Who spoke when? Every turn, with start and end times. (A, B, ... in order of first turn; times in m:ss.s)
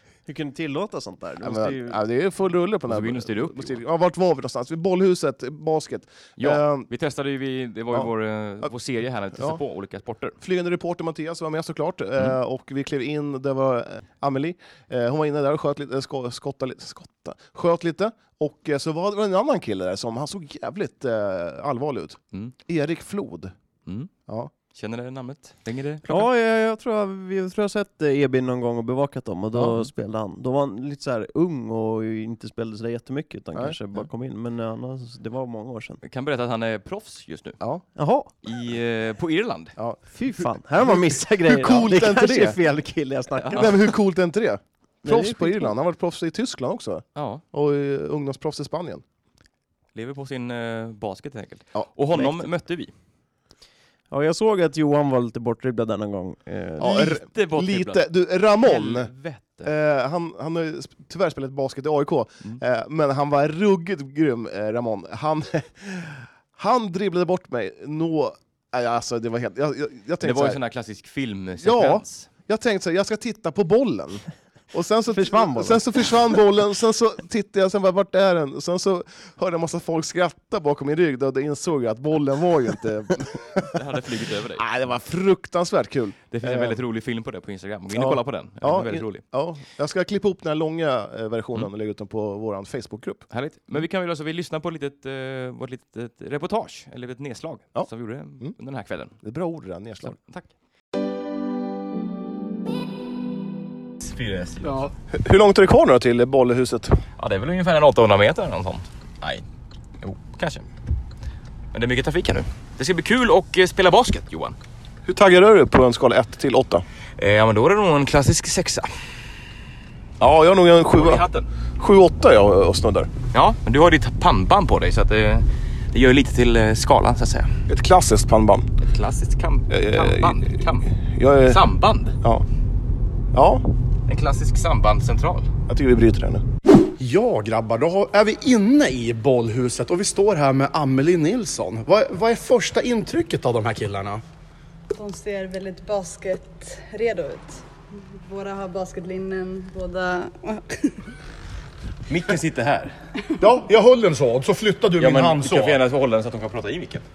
0:00.3-0:02.0 A
0:01.4-0:06.9 B
0:02.9-0:03.8 C
0:06.4-0:10.4 C
0:10.4-0:23.5 B
0:23.9-0:24.1 C
0:24.7-0:26.3 C
0:26.1-0:36.0 A
0:29.5-0:29.9 B
0:33.6-0:34.0 B
0:36.0-0:37.6 C
0:37.6-0:37.8 B
0:38.0-0:38.3 A
0:38.4-0:39.7 C
0:39.8-0:42.6 B
0:40.1-0:43.8 A
0:43.5-0:49.0 B
0:45.0-0:45.7 A
0:47.2-0:47.4 C
0:50.0-0:52.9 C
0:54.1-0:56.9 A
0:56.8-0:59.1 B
0:56.8-0:58.1 C
0:58.6-0:59.7 C
0:59.6-1:10.6 B
1:10.2-1:12.3 C
1:11.6-1:23.8 B
1:15.1-1:15.8 A
1:23.7-1:24.7 C
1:24.6-1:26.8 B
1:26.3-1:29.2 C
1:27.9-1:33.3 B
1:33.3-1:39.1 C
1:39.2-1:40.2 B
1:40.1-1:40.5 C
1:44.0-1:44.9 C
1:45.1-1:47.0 B
1:47.2-1:49.4 C
1:50.0-1:50.7 C
1:51.7-1:54.6 C
1:55.1-1:56.8 B
1:57.2-1:58.9 C
2:00.2-2:01.2 B
2:00.9-2:01.5 C
2:01.8-2:03.1 B
2:03.3-2:07.6 C
2:07.7-2:08.7 B
2:08.8-2:10.9 C
2:09.7-2:11.6 B
2:11.4-2:12.2 C
2:13.3-2:13.6 B
2:14.1-2:15.5 C
2:15.7-2:16.4 B
2:17.0-2:24.2 D
2:24.9-2:31.0 E
2:32.1-2:33.0 C
2:33.4-2:35.8 D
2:35.0-2:37.1 C